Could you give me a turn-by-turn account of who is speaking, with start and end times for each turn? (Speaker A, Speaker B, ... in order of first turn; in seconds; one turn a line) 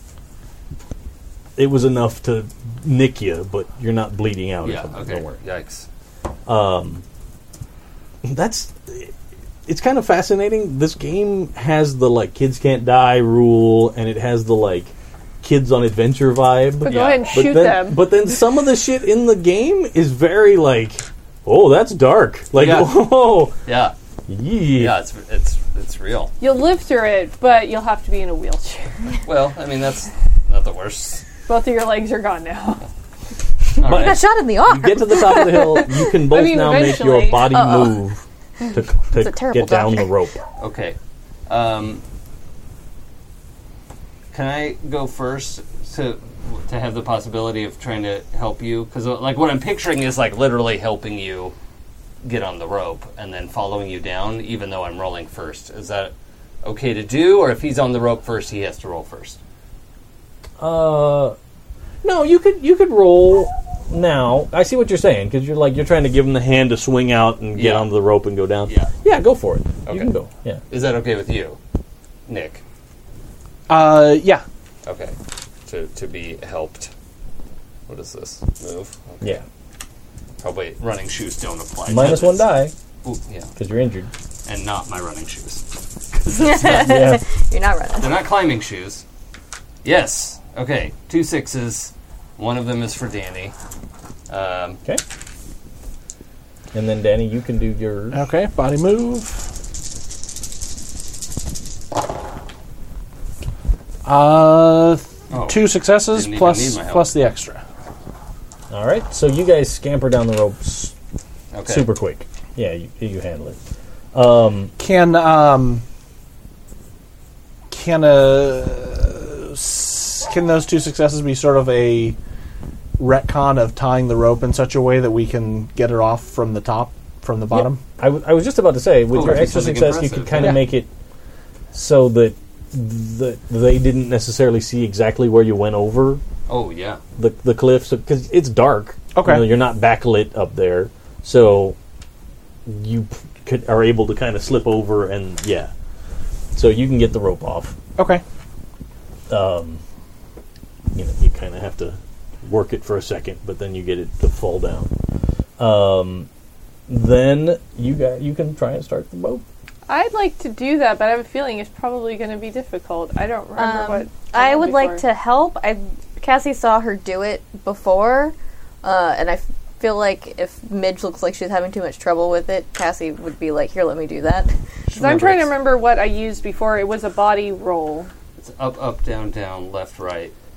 Speaker A: 1.6-5.4
Speaker B: 4.6-5.9
Speaker A: 6.5-7.0
Speaker A: 8.2-9.1
Speaker A: 9.7-23.5
Speaker C: 16.8-18.2
Speaker B: 16.9-17.3
Speaker B: 22.5-23.9
Speaker A: 24.3-25.0
Speaker B: 24.8-26.3
Speaker C: 26.4-29.2
Speaker B: 29.2-31.3
Speaker C: 31.5-32.9
Speaker B: 33.8-34.2
Speaker A: 33.8-40.4
Speaker D: 33.8-36.1
Speaker C: 36.1-37.6
Speaker D: 37.5-38.0
Speaker D: 39.1-40.2
Speaker B: 40.6-42.0
Speaker B: 44.3-51.5
Speaker B: 52.2-59.4
Speaker A: 60.6-61.4
Speaker A: 62.0-70.6
Speaker B: 67.5-67.9
Speaker B: 68.7-68.9
Speaker B: 69.9-70.1
Speaker B: 70.7-71.6
Speaker B: 72.3-72.6
Speaker E: 73.7-74.4
Speaker B: 74.8-75.2
Speaker B: 75.7-76.9
Speaker B: 77.9-79.4
Speaker B: 80.4-82.5
Speaker A: 81.9-82.7
Speaker B: 83.0-83.5
Speaker A: 83.6-84.1
Speaker B: 84.5-87.0
Speaker D: 86.3-88.2
Speaker A: 86.6-87.2
Speaker B: 88.0-89.0
Speaker B: 89.8-93.5
Speaker B: 94.3-94.8
Speaker A: 96.7-98.2
Speaker E: 98.1-99.5
Speaker E: 104.0-107.6
Speaker B: 105.3-107.1
Speaker A: 108.7-110.9
Speaker B: 111.5-111.9
Speaker A: 111.7-113.6
Speaker A: 114.1-114.7
Speaker E: 114.8-115.8
Speaker E: 117.7-122.2
Speaker E: 123.0-127.8
Speaker A: 127.5-130.9
Speaker B: 129.1-130.6
Speaker A: 131.7-136.2
Speaker B: 136.5-137.0
Speaker A: 137.2-141.8
Speaker E: 139.1-139.6
Speaker A: 142.7-145.7
Speaker A: 146.5-147.8
Speaker E: 148.0-148.2
Speaker A: 149.3-149.8
Speaker A: 150.9-154.9
Speaker A: 155.6-156.3
Speaker A: 156.9-159.4
Speaker C: 159.9-165.0
Speaker D: 163.6-174.5
Speaker B: 174.9-175.5
Speaker C: 174.9-178.1
Speaker B: 178.4-180.3